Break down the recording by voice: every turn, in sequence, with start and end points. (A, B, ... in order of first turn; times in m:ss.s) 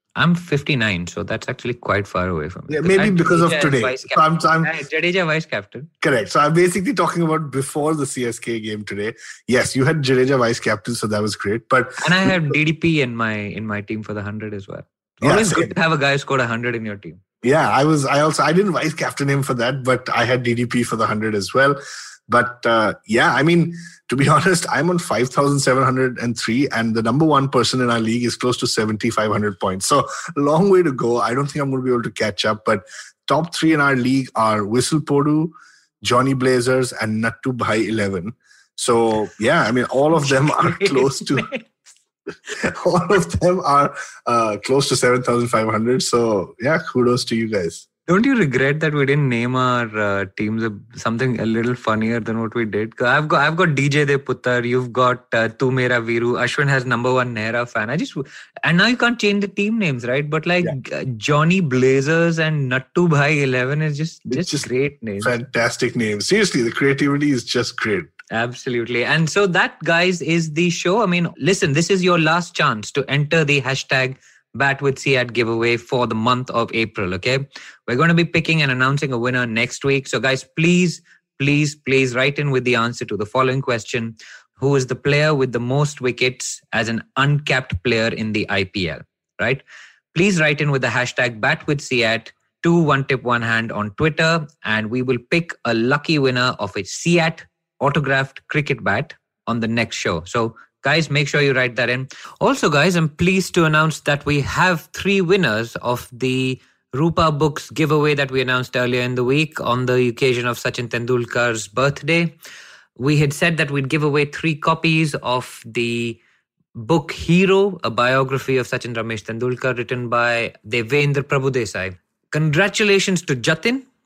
0:00.2-0:05.9 A
0:02.7-0:04.8 B
0:06.0-0:12.5 B
0:12.0-0:17.2 A
0:15.2-0:15.7 B
0:17.4-0:41.5 B
0:40.1-0:41.8 A
0:42.6-0:47.9 B
0:48.1-1:05.3 A
1:04.3-1:08.2 B
1:08.3-1:52.4 A
1:53.0-1:56.2 A
1:56.8-2:03.8 A